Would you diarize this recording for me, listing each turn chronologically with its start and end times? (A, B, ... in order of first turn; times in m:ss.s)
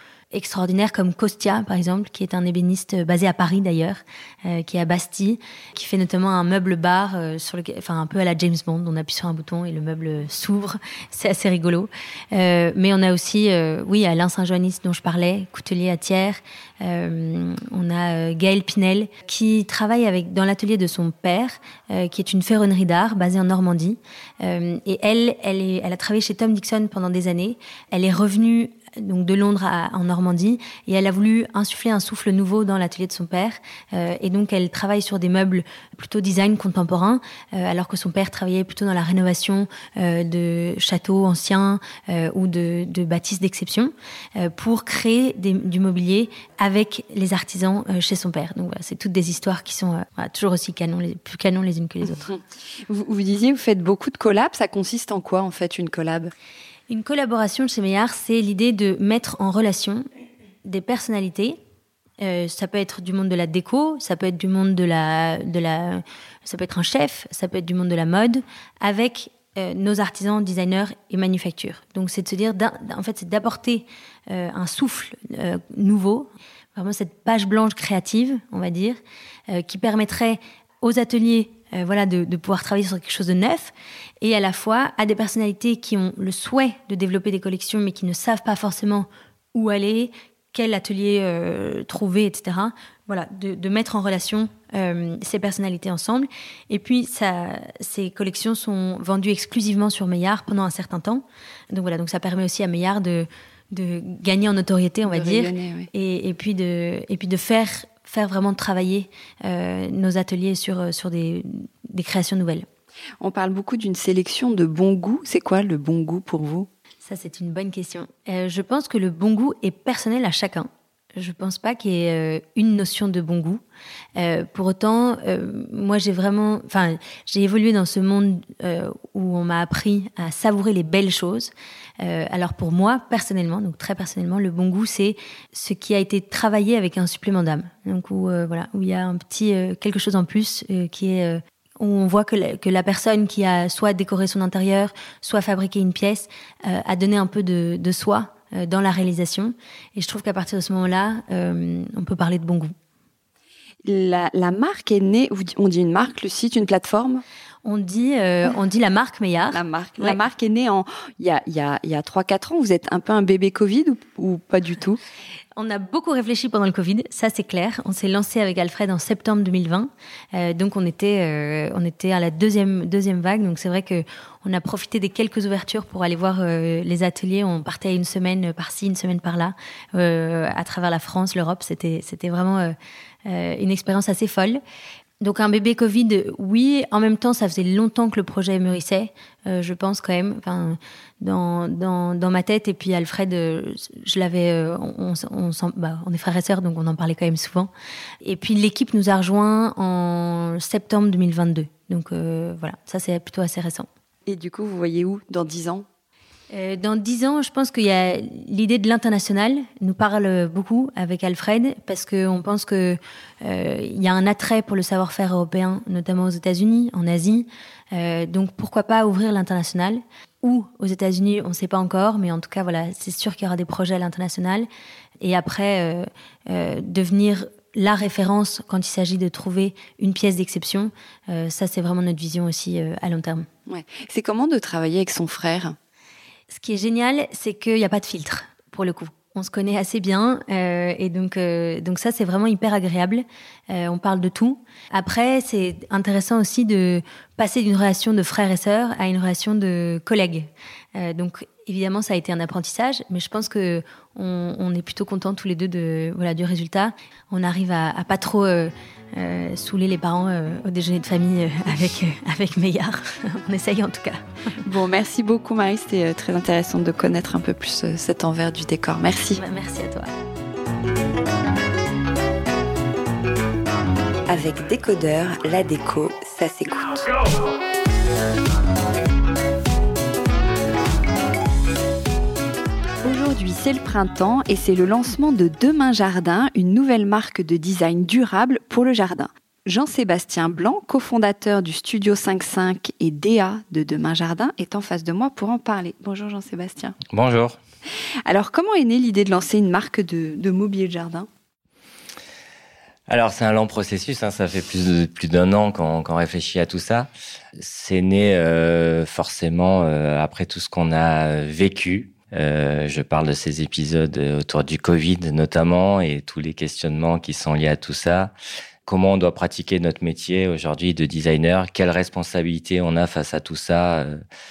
0:00.3-0:52.3 A
0:52.3-0:56.3 B
0:56.9-1:00.0 A
1:00.6-1:01.6 A
1:02.2-1:52.6 A
1:45.0-1:45.9 B
1:53.2-1:56.7 B
1:57.0-2:03.6 A
2:04.2-2:32.7 A
2:33.8-2:37.2 B
2:37.6-2:40.2 A
2:39.5-2:45.0 B
2:45.6-3:02.7 A
3:03.3-3:04.6 A
3:05.2-3:17.7 A
3:18.2-3:23.9 A
3:24.2-3:25.8 B
3:26.5-3:44.7 A
3:45.2-3:53.5 A
3:53.7-3:55.8 B
3:56.5-4:24.2 A
4:24.6-4:29.4 B
4:29.4-4:30.1 A
4:34.3-4:37.1 B
4:43.0-4:57.0 B
4:57.1-4:57.6 C
4:58.2-5:01.3 B
5:03.1-5:18.3 C
5:18.8-5:24.2 C